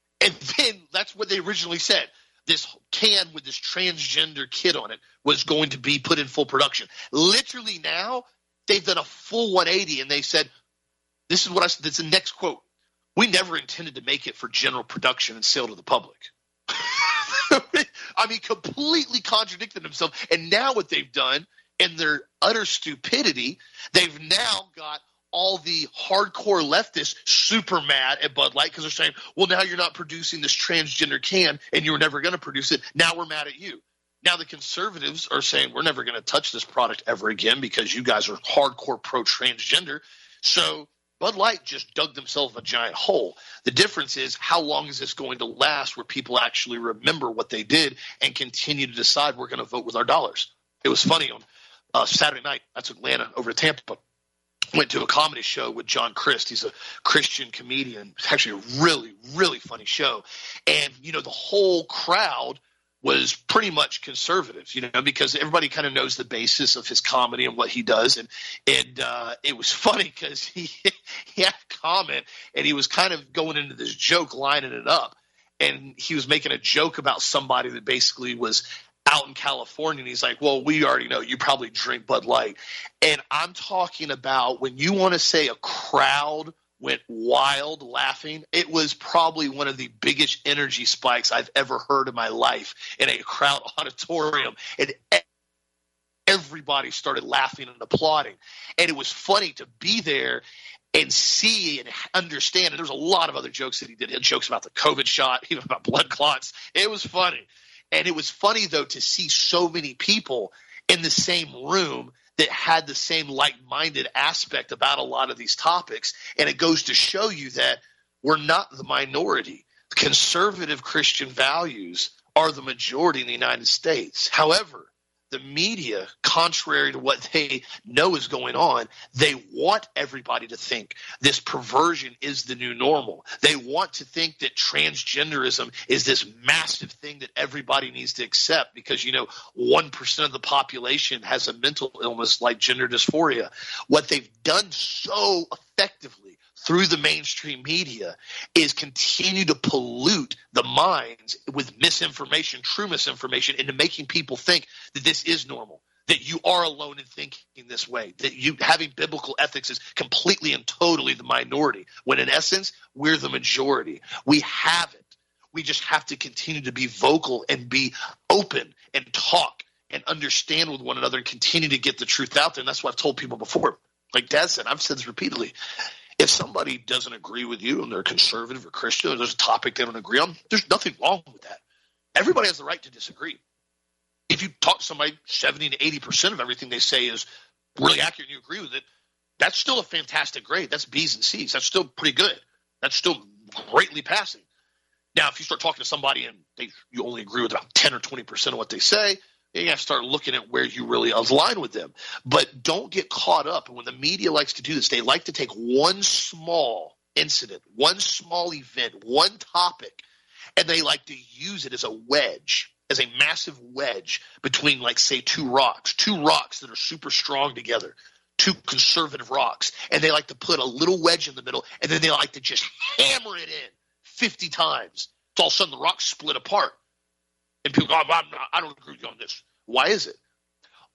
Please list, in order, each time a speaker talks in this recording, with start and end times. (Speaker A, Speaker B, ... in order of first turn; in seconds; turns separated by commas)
Speaker A: 0.2-10.5, Speaker A: 11.3-12.6, Speaker A: 13.2-51.4, Speaker A: 52.0-54.0, Speaker A: 54.7-95.2, Speaker A: 96.3-175.6, Speaker A: 176.2-181.6, Speaker A: 182.2-183.4, Speaker A: 184.3-187.3, Speaker A: 187.8-188.8, Speaker A: 189.4-194.4, Speaker A: 195.2-210.0, Speaker A: 210.6-226.8, Speaker A: 227.7-230.2